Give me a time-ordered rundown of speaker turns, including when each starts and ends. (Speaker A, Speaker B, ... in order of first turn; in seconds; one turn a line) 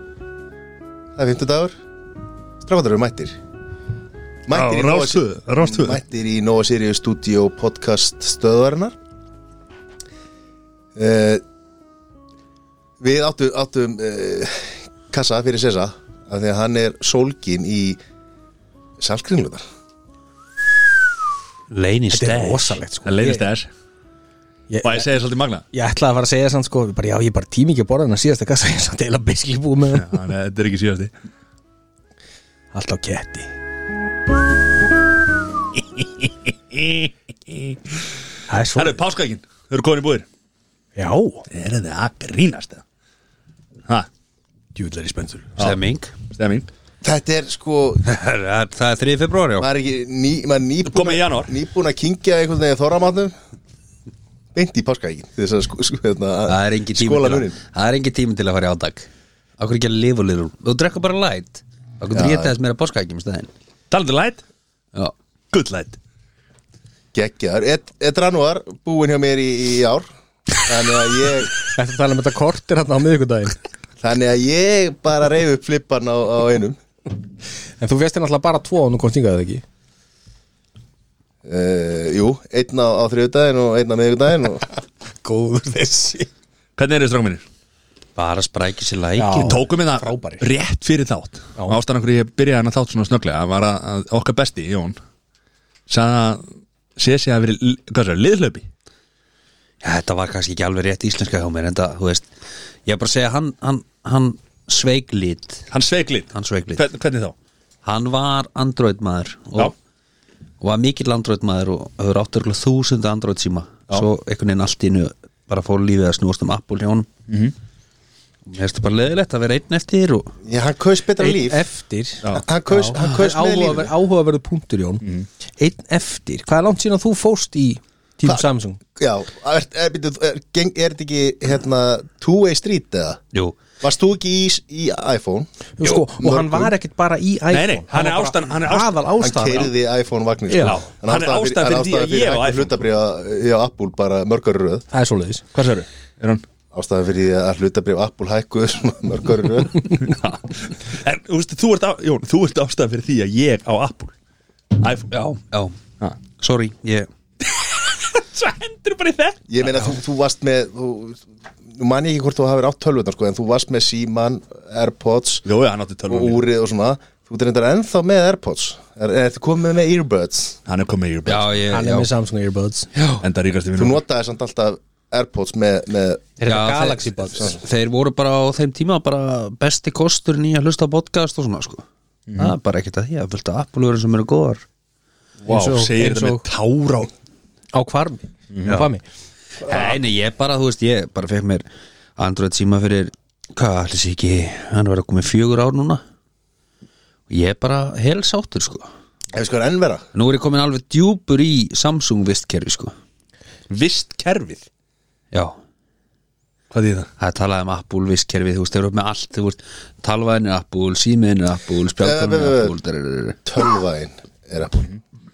Speaker A: 1.2-1.8
Speaker A: 2.6-3.4
Speaker A: 4.5-8.9
Speaker B: 4.5-6.0
Speaker A: 10.9-11.4
Speaker A: 13.0-18.0
Speaker A: 19.0-19.6
Speaker C: 21.7-22.8
Speaker D: 22.1-23.5
Speaker B: 23.0-23.7
Speaker D: 24.7-25.1
Speaker B: 24.8-25.6
Speaker D: 25.7-30.1
Speaker B: 29.9-31.1
Speaker D: 32.7-33.5
Speaker B: 36.0-37.8
Speaker D: 38.5-39.0
Speaker B: 38.8-40.3
Speaker D: 41.0-41.5
Speaker B: 41.5-42.8
Speaker D: 44.8-45.5
Speaker C: 45.6-46.1
Speaker B: 46.3-46.7
Speaker A: 47.0-48.0
Speaker C: 48.0-49.7
Speaker A: 49.6-53.3
Speaker B: 50.9-51.5
Speaker A: 54.5-57.6
Speaker C: 56.5-59.1
Speaker C: 59.6-63.5
Speaker A: 62.1-62.5
Speaker B: 63.9-64.4
Speaker B: 65.5-66.0
Speaker A: 67.1-71.5
Speaker D: 71.6-73.6
Speaker A: 74.0-76.8
Speaker D: 77.8-79.6
Speaker A: 81.5-84.7
Speaker D: 85.2-86.3
Speaker B: 86.8-87.5
Speaker C: 88.2-89.6
Speaker D: 89.2-90.5
Speaker B: 89.2-95.0
Speaker B: 95.9-98.7
Speaker C: 99.8-102.3
Speaker C: 102.9-105.7
Speaker B: 105.7-107.3
Speaker C: 106.3-106.8
Speaker C: 107.8-109.7
Speaker C: 110.6-117.1
Speaker B: 117.3-117.5
Speaker C: 118.5-120.3
Speaker A: 120.4-121.7
Speaker D: 121.2-125.0
Speaker A: 122.3-123.9
Speaker D: 125.6-128.8
Speaker A: 129.0-133.2
Speaker A: 133.8-135.5
Speaker D: 135.8-139.7
Speaker A: 136.2-136.7
Speaker B: 137.5-139.1
Speaker A: 139.2-144.9
Speaker D: 140.5-140.8
Speaker B: 140.7-142.8
Speaker D: 144.9-145.4
Speaker B: 145.5-146.4
Speaker A: 146.7-150.0
Speaker B: 150.0-154.1
Speaker B: 154.7-155.1
Speaker C: 155.1-155.8
Speaker C: 156.4-157.1
Speaker B: 157.4-159.4
Speaker A: 159.5-165.4
Speaker B: 165.4-166.4
Speaker A: 166.1-170.6
Speaker B: 170.7-172.0
Speaker C: 171.3-172.1
Speaker D: 171.7-172.9
Speaker C: 172.9-173.2
Speaker B: 173.2-174.0
Speaker A: 173.8-176.2
Speaker D: 176.4-177.6
Speaker C: 176.5-181.8
Speaker B: 182.3-182.5
Speaker C: 182.4-184.6
Speaker B: 185.4-187.1
Speaker D: 185.4-186.4
Speaker D: 187.7-189.0
Speaker B: 188.5-188.8
Speaker C: 189.6-191.7
Speaker C: 192.2-196.0
Speaker C: 197.3-198.9
Speaker A: 199.3-200.1
Speaker C: 200.1-202.9
Speaker B: 203.7-204.7
Speaker B: 206.7-207.1
Speaker C: 207.2-213.4
Speaker A: 212.0-212.8
Speaker A: 213.5-214.9